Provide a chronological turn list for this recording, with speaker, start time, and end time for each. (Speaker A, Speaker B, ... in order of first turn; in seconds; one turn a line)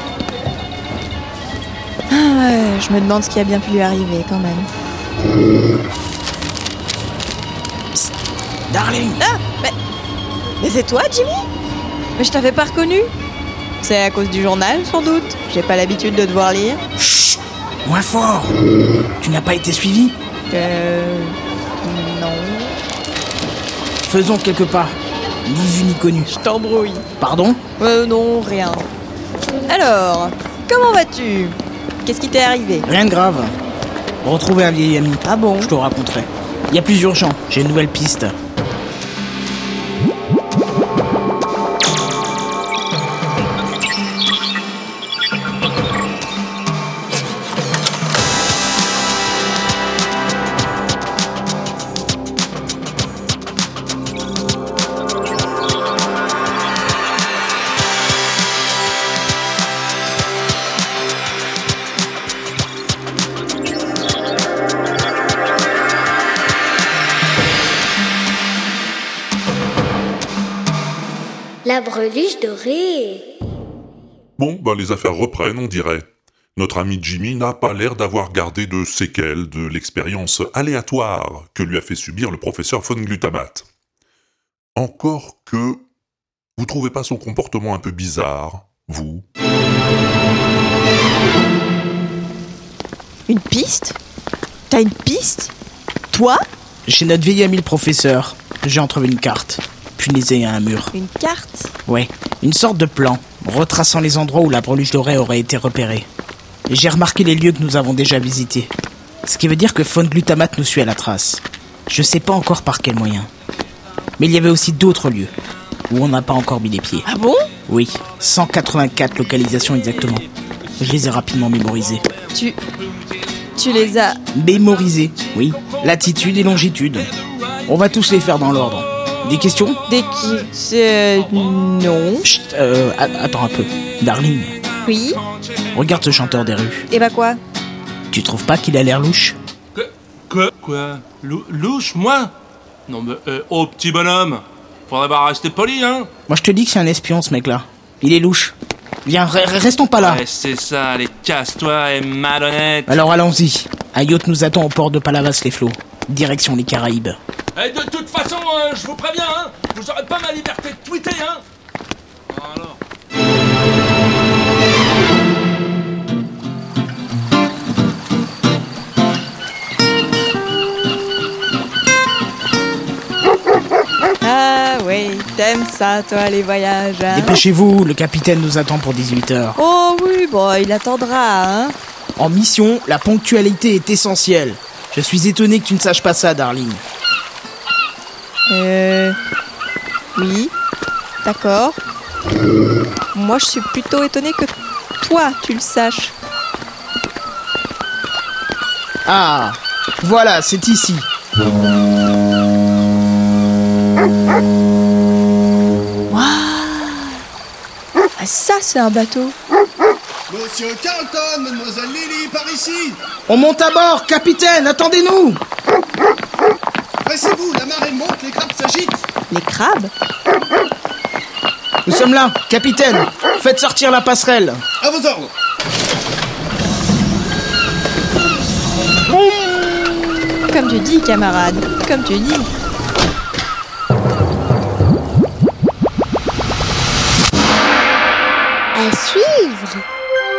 Speaker A: 2.1-4.7
Speaker B: 8.7-9.2
Speaker A: 9.2-9.7
Speaker A: 10.6-11.5
Speaker A: 12.2-13.1
Speaker A: 13.8-16.8
Speaker B: 17.8-18.6
Speaker B: 19.2-20.1
Speaker A: 20.5-22.7
Speaker B: 24.0-26.3
Speaker A: 26.3-27.1
Speaker B: 27.2-27.6
Speaker A: 27.8-28.9
Speaker A: 29.7-32.9
Speaker B: 32.9-33.5
Speaker B: 34.2-38.3
Speaker A: 35.2-35.7
Speaker C: 71.6-73.2
Speaker D: 74.4-83.7
Speaker D: 84.8-85.8
Speaker D: 86.6-89.2
Speaker A: 93.3-94.0
Speaker A: 94.7-95.5
Speaker A: 96.1-96.4
Speaker B: 96.8-100.9
Speaker A: 100.9-101.7
Speaker B: 101.8-106.0
Speaker B: 106.7-108.7
Speaker B: 109.2-113.3
Speaker B: 114.2-115.3
Speaker B: 115.9-117.1
Speaker A: 117.1-117.4
Speaker B: 117.7-120.2
Speaker B: 120.8-122.1
Speaker A: 123.5-124.2
Speaker B: 124.3-127.1
Speaker B: 127.6-129.8
Speaker A: 129.9-132.2
Speaker B: 132.2-134.6
Speaker A: 134.8-135.2
Speaker B: 135.7-136.8
Speaker A: 136.9-137.4
Speaker B: 138.1-139.4
Speaker E: 139.7-142.3
Speaker E: 142.9-146.1
Speaker B: 146.3-150.2
Speaker E: 150.0-153.0
Speaker B: 152.9-157.2
Speaker E: 157.6-161.4
Speaker E: 162.3-162.8
Speaker A: 174.2-177.4
Speaker B: 177.1-179.6
Speaker A: 179.6-181.8
Speaker B: 182.2-186.8
Speaker A: 188.5-189.2
Speaker A: 190.1-190.5
Speaker A: 191.2-191.8
Speaker A: 193.1-196.1
Speaker B: 199.1-201.1
Speaker A: 206.1-207.2
Speaker A: 208.2-209.3
Speaker F: 210.3-213.0
Speaker B: 213.3-215.4
Speaker F: 217.1-219.0
Speaker A: 219.3-219.9
Speaker B: 221.8-224.6
Speaker F: 224.8-225.3
Speaker A: 230.5-232.5
Speaker C: 238.7-239.8